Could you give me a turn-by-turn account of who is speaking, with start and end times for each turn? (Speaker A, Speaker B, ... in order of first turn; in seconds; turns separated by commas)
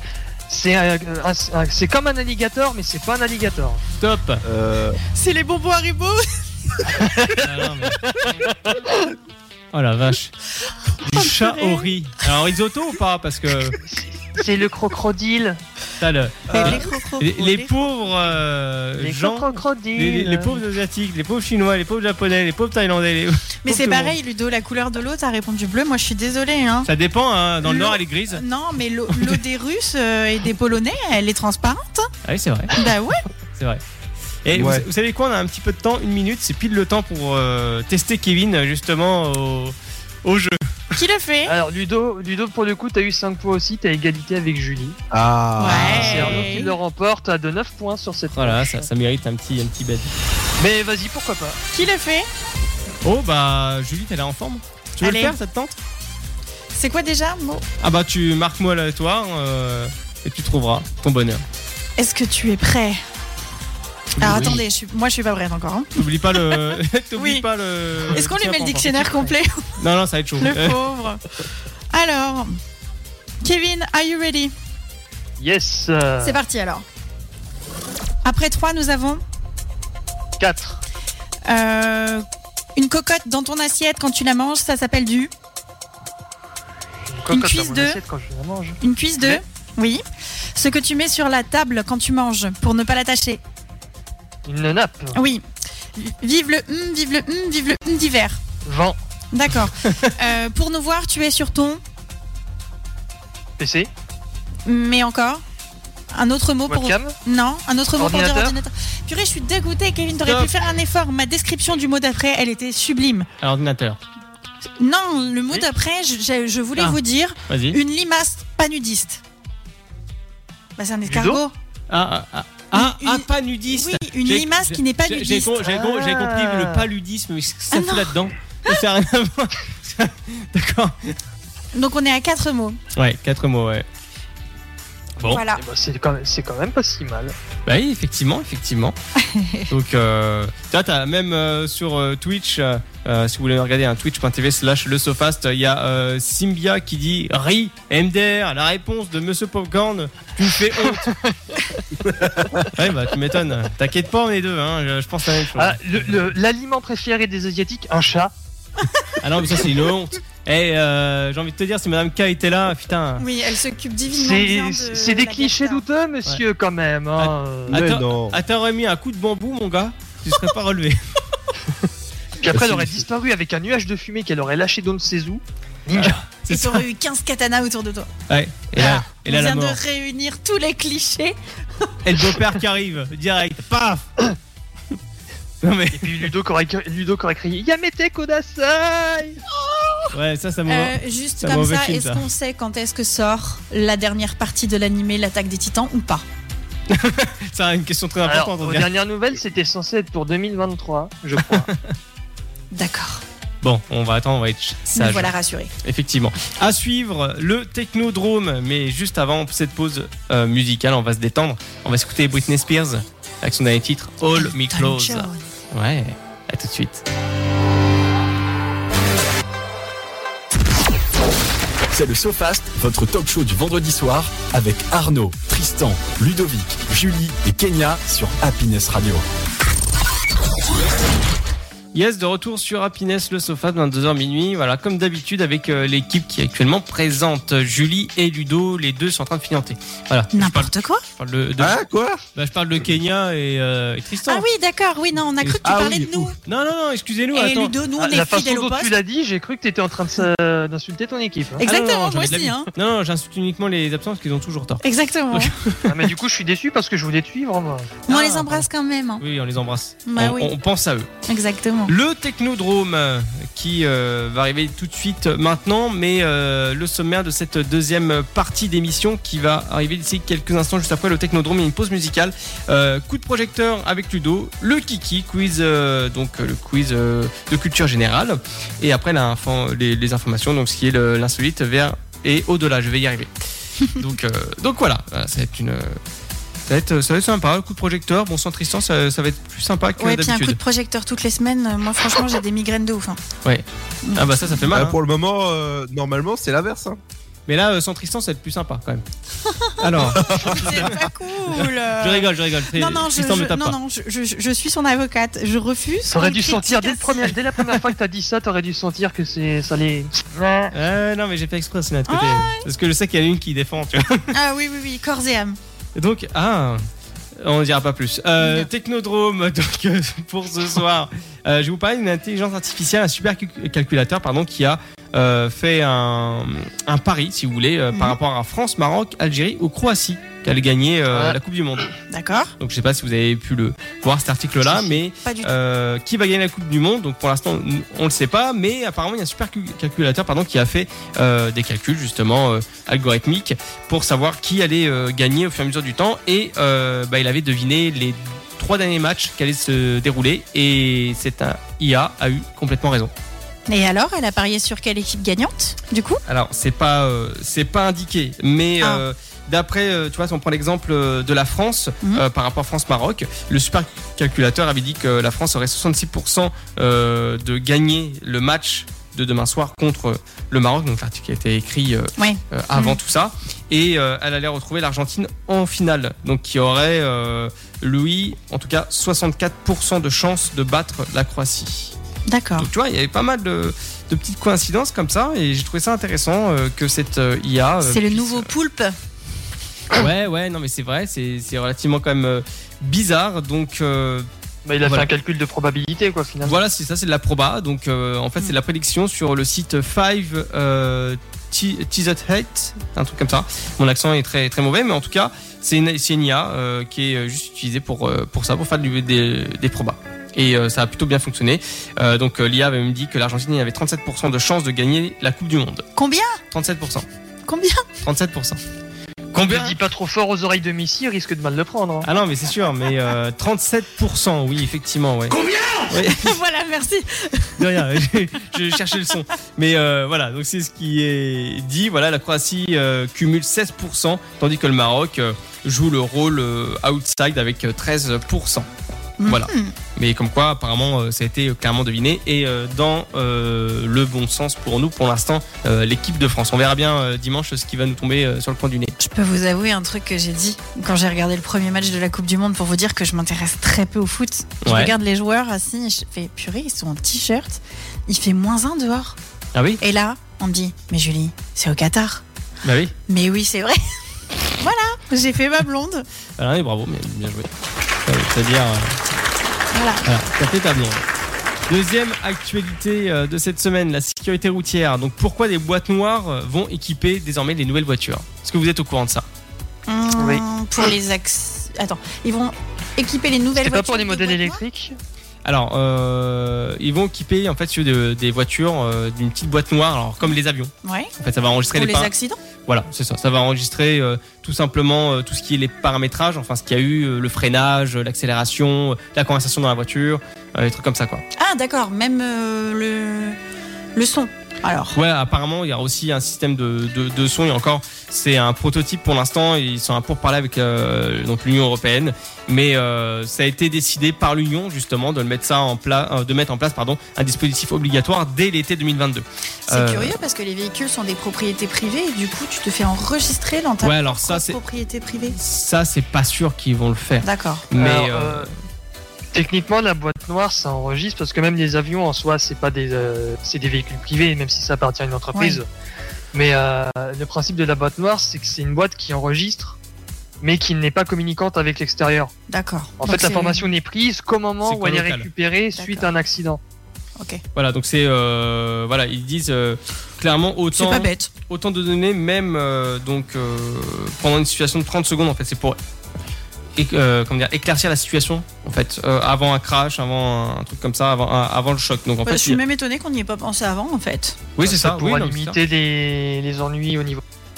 Speaker A: 0.5-3.8, Speaker B: 4.0-4.4, Speaker C: 4.4-5.0, Speaker D: 5.1-6.9, Speaker A: 6.9-7.5, Speaker B: 7.4-8.0, Speaker A: 8.1-8.8, Speaker B: 9.7-10.3, Speaker B: 11.0-13.8, Speaker D: 11.1-11.9, Speaker A: 13.8-15.6, Speaker B: 16.0-24.1, Speaker D: 16.5-17.7, Speaker A: 19.0-20.6, Speaker D: 23.6-26.9, Speaker B: 26.8-28.4, Speaker D: 27.6-32.1, Speaker B: 29.1-29.4, Speaker B: 32.2-32.7, Speaker D: 32.7-33.2, Speaker B: 34.4-40.6, Speaker C: 34.5-34.9, Speaker D: 40.9-41.5, Speaker A: 41.5-45.0, Speaker C: 45.1-46.4, Speaker D: 45.6-46.7, Speaker B: 45.7-46.4, Speaker A: 45.9-48.9, Speaker B: 48.3-50.1, Speaker A: 50.6-51.6, Speaker D: 51.7-52.3, Speaker B: 53.0-55.7, Speaker D: 55.0-55.4, Speaker D: 56.7-57.6, Speaker B: 57.8-61.4, Speaker D: 62.0-63.0, Speaker D: 64.2-67.4, Speaker B: 64.2-64.6, Speaker B: 66.0-70.8, Speaker D: 68.1-69.7, Speaker D: 70.4-71.2, Speaker D: 71.9-72.5, Speaker D: 73.4-74.5, Speaker A: 75.4-76.4, Speaker D: 76.2-76.8, Speaker D: 78.2-79.2, Speaker A: 80.4-80.8, Speaker D: 81.5-82.2, Speaker D: 82.8-85.3, Speaker A: 87.1-89.4, Speaker D: 87.3-88.0, Speaker D: 88.8-90.0, Speaker D: 90.5-93.4, Speaker A: 94.5-95.2, Speaker D: 95.1-95.4, Speaker D: 96.0-98.4, Speaker A: 98.6-99.0, Speaker D: 99.3-101.8, Speaker B: 99.8-100.1, Speaker A: 103.6-103.9, Speaker D: 104.7-105.4, Speaker D: 106.1-113.3, Speaker A: 106.7-107.2, Speaker A: 108.0-108.6, Speaker B: 110.2-110.5, Speaker B: 113.4-114.0, Speaker D: 114.8-119.2, Speaker B: 116.8-117.8, Speaker D: 120.8-121.5, Speaker A: 121.1-121.4, Speaker B: 121.9-131.2, Speaker D: 122.7-125.5, Speaker A: 125.6-126.9, Speaker D: 127.7-128.2, Speaker D: 131.7-132.8, Speaker B: 132.9-133.8, Speaker B: 135.2-135.4, Speaker D: 135.3-135.6, Speaker A: 135.5-137.3, Speaker B: 137.7-138.9, Speaker D: 139.2-139.7, Speaker B: 139.7-151.2, Speaker A: 151.0-151.3, Speaker B: 152.7-156.3, Speaker A: 155.5-158.3, Speaker B: 159.2-163.2, Speaker D: 163.2-165.8, Speaker A: 164.1-167.8, Speaker B: 167.2-171.0, Speaker C: 167.7-168.4, Speaker A: 172.4-176.2, Speaker B: 172.5-172.8, Speaker C: 172.5-173.0, Speaker B: 175.9-176.8, Speaker D: 176.5-178.1, Speaker B: 178.3-179.8, Speaker D: 178.8-181.9, Speaker B: 182.0-184.1, Speaker B: 185.6-186.3, Speaker A: 185.9-189.4, Speaker B: 190.1-192.2, Speaker D: 190.7-196.2, Speaker B: 196.9-198.9, Speaker A: 198.3-201.7, Speaker B: 201.4-201.9, Speaker D: 202.7-203.2, Speaker B: 203.6-217.0, Speaker D: 204.9-205.7, Speaker D: 214.3-215.4, Speaker E: 221.9-229.2, Speaker B: 231.9-241.8, Speaker D: 240.3-241.0, Speaker C: 241.6-242.2, Speaker B: 242.3-244.4, Speaker D: 244.3-246.3, Speaker B: 245.4-247.7, Speaker C: 245.6-246.3, Speaker D: 247.3-248.9, Speaker A: 248.0-251.6, Speaker D: 251.6-252.7, Speaker B: 251.6-256.1, Speaker D: 254.8-255.5, Speaker A: 255.9-258.2, Speaker D: 258.1-259.2, Speaker B: 258.1-258.6, Speaker B: 259.2-261.1, Speaker D: 260.1-260.5, Speaker D: 261.3-261.9, Speaker B: 261.9-283.3, Speaker B: 283.8-286.0, Speaker B: 286.7-290.6, Speaker D: 290.0-293.2, Speaker D: 294.0-294.7, Speaker B: 294.1-295.0, Speaker C: 294.7-297.0, Speaker B: 297.5-299.0, Speaker D: 299.5-307.4, Speaker B: 299.8-303.8, Speaker C: 300.2-300.6, Speaker A: 306.1-310.7, Speaker B: 310.7-314.3, Speaker D: 312.1-312.6, Speaker D: 314.3-315.6, Speaker B: 315.9-316.8, Speaker B: 317.4-331.9, Speaker D: 318.4-318.7, Speaker A: 331.1-331.4, Speaker D: 332.1-332.5, Speaker B: 332.6-353.1, Speaker D: 335.2-335.5, Speaker D: 353.7-356.2, Speaker B: 356.3-381.9, Speaker D: 372.2-373.0, Speaker D: 382.3-382.7, Speaker B: 382.6-388.5, Speaker D: 387.8-388.9, Speaker B: 389.9-394.3, Speaker A: 394.6-396.6, Speaker B: 394.8-395.1, Speaker B: 396.4-415.9, Speaker D: 415.9-416.4, Speaker B: 416.5-417.1, Speaker D: 417.5-417.8, Speaker B: 418.0-418.6, Speaker B: 419.3-419.8, Speaker A: 419.4-422.1, Speaker B: 422.0-426.4, Speaker D: 426.0-427.6, Speaker B: 427.6-438.7, Speaker D: 439.2-439.7, Speaker B: 439.2-448.9, Speaker D: 449.0-459.2, Speaker B: 454.6-454.9, Speaker B: 459.5-459.8, Speaker D: 459.8-462.2, Speaker B: 462.6-462.9, Speaker D: 463.1-463.8, Speaker D: 464.6-466.0, Speaker B: 466.4-467.5, Speaker B: 468.1-469.0, Speaker D: 469.7-470.0, Speaker B: 470.0-471.0, Speaker B: 471.7-479.2, Speaker D: 479.9-484.6, Speaker A: 480.2-480.4, Speaker A: 483.6-485.0, Speaker B: 485.4-492.1, Speaker D: 490.8-491.1, Speaker D: 491.7-492.4, Speaker B: 492.7-501.2, Speaker D: 501.4-503.4, Speaker D: 503.9-505.0, Speaker B: 504.9-520.1, Speaker D: 519.7-525.4, Speaker B: 523.8-524.6, Speaker B: 525.3-528.5, Speaker D: 527.2-527.6, Speaker A: 527.8-528.5, Speaker A: 529.3-535.7, Speaker D: 535.3-535.6, Speaker A: 536.3-539.8, Speaker A: 540.4-542.3, Speaker D: 542.5-543.6, Speaker A: 543.0-546.6, Speaker B: 544.6-545.3, Speaker D: 545.8-546.1, Speaker B: 547.5-555.8, Speaker D: 550.7-551.3, Speaker B: 556.8-562.6, Speaker D: 562.2-564.4, Speaker B: 564.6-565.6, Speaker A: 564.6-567.2